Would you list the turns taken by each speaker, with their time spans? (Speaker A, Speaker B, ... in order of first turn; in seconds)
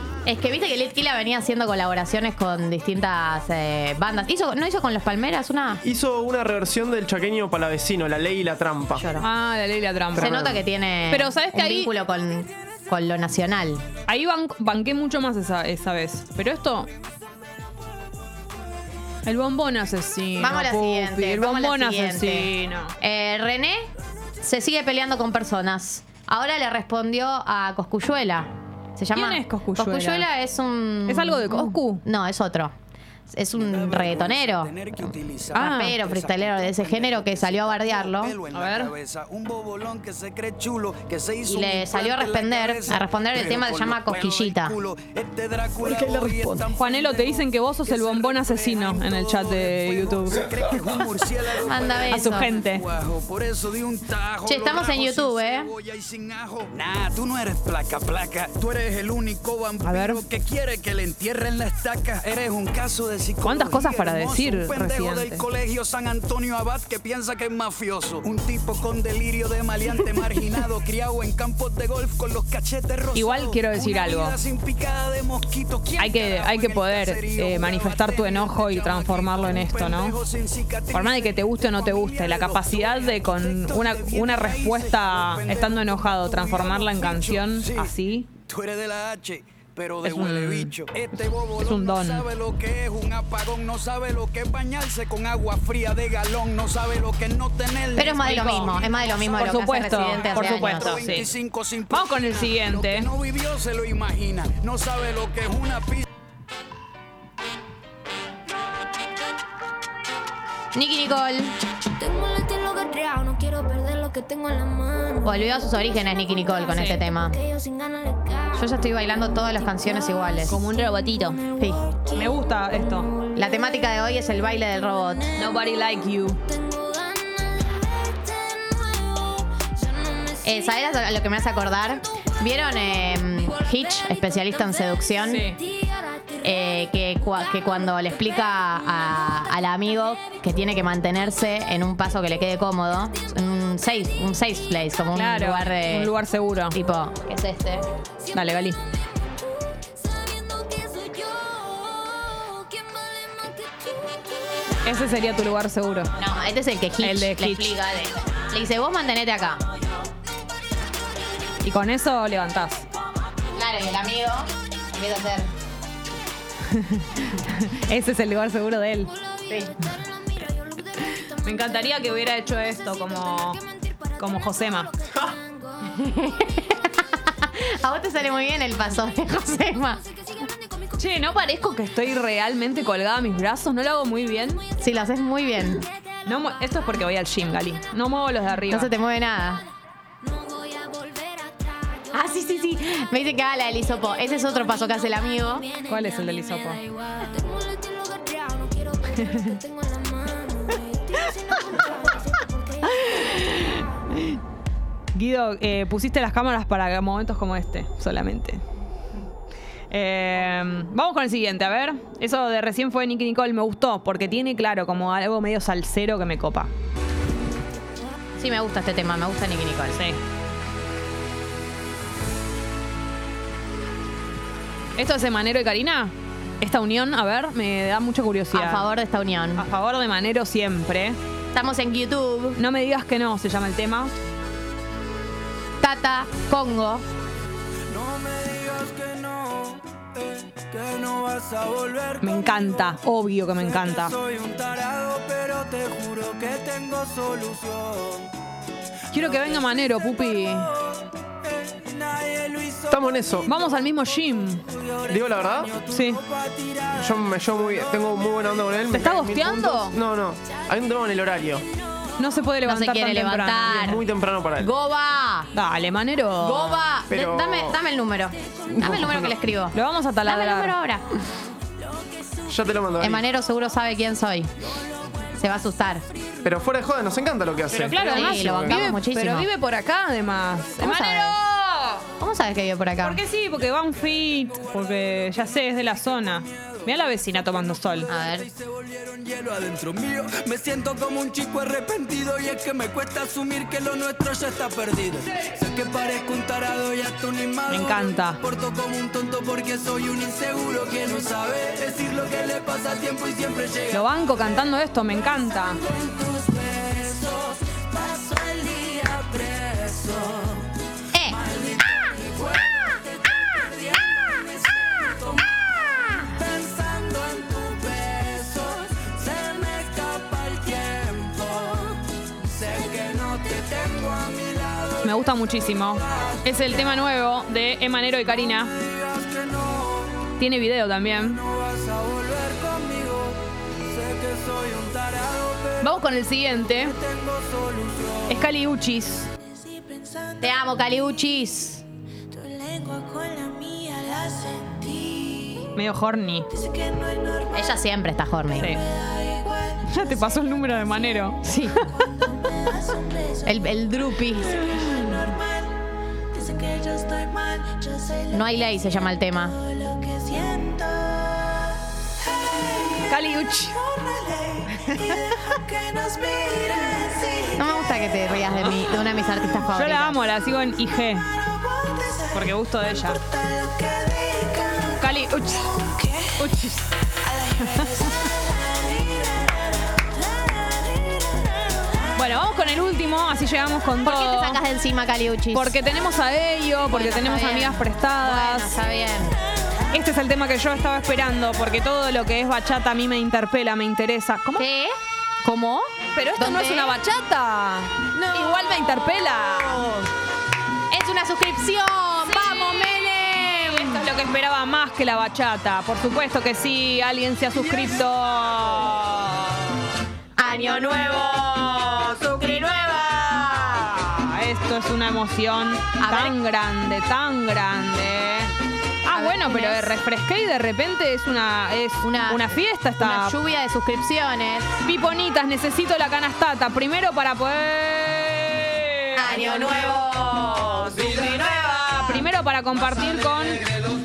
Speaker A: 0.3-5.8, 9.0-9.3, 10.2-13.8, 20.4-23.9, 24.4-32.7, 33.3-34.7, 35.5-38.4, 41.5-44.8, 51.5-52.5, 54.5-55.7, 98.0-101.2, 110.8-111.6, 115.2-117.4, 118.5-120.6, 121.6-121.9, 123.3-125.4, 130.4-135.6, 136.4-146.1, 146.7-147.9, 156.2-159.6, 163.5-165.5, 169.5-169.8, 175.2-180.0, 184.8-185.9, 188.7-189.7, 192.1-195.7, 218.4-220.0, 228.5-229.7, 231.5-232.6, 235.8-237.1, 262.6-264.0, 264.6-265.5, 266.4-271.1, 273.0-274.5, 275.4-276.1, 277.9-279.5, 280.8-281.4, 282.2-283.2, 288.1-288.5, 311.1-311.4, 340.4-341.8, 347.4-348.8, 351.4-352.1, 353.4-354.6, 358.2-359.6, 367.4-370.2, 384.0-385.8, 386.9-389.4, 394.6-397.0, 398.1-400.1, 400.9-404.0, 410.4-413.3, 416.0-416.4, 419.1-420.0, 422.0-424.7, 429.1-432.2
Speaker B: 5.8-9.1, 10.1-10.6, 45.9-46.6, 252.9-253.5, 255.1-255.7, 256.9-261.7, 263.7-264.7, 267.1-267.8, 268.7-269.3, 272.5-273.2, 276.4-278.9
Speaker C: 9.2-10.5, 11.1-11.9, 14.1-16.9, 19.2-22.9, 29.1-30.3, 31.1-32.0, 35.5-36.0, 38.5-38.9, 46.7-50.5, 52.1-52.8, 59.8-60.2, 63.4-65.5, 73.1-74.4, 76.0-80.2, 80.9-88.3, 90.0-90.7, 91.5-92.3, 98.3-98.7, 99.3-101.3, 101.9-103.1, 116.7-117.0, 120.5-121.4, 122.1-123.1, 125.4-126.4, 135.3-135.6, 145.1-146.8, 148.3-148.8, 154.8-156.1, 157.0-157.7, 161.6-162.8, 166.7-169.1, 170.9-173.6, 174.1-174.9, 181.0-184.6, 186.2-188.9, 195.8-196.8, 199.0-199.6, 201.2-201.9, 202.8-204.4, 205.1-208.6, 209.9-216.7, 219.9-220.2, 225.0-228.9, 229.6-231.2, 232.6-234.2, 242.2-244.2, 249.1-250.7, 253.4-254.7, 255.9-256.2, 258.9-260.0, 262.2-264.0, 265.5-266.8, 269.7-270.8, 277.7-282.0, 283.0-288.1, 297.7-298.4, 303.9-305.8, 325.0-328.8, 330.4-331.4, 335.8-337.0, 338.3-339.3, 345.7-346.5, 348.6-348.8, 349.8-351.5, 354.6-355.4, 363.0-364.1, 364.6-365.4, 368.5-368.9, 369.7-371.3, 372.3-373.2, 375.0-376.9, 377.5-378.3, 382.1-384.6, 385.5-388.8, 389.9-394.6, 396.1-399.8, 402.3-409.7, 413.1-418.5, 419.0-423.4, 424.8-429.4, 431.9-433.6
Speaker D: 33.6-87.9, 88.4-106.0, 237.9-242.3, 243.9-248.3, 251.7-252.9, 255.8-257.0, 288.5-303.9, 305.9-310.6, 311.4-315.4, 316.4-325.0, 328.8-330.2, 331.4-335.8, 337.0-338.3
Speaker E: 112.3-115.0, 197.4-198.7, 342.6-344.7, 356.7-357.3, 366.0-366.3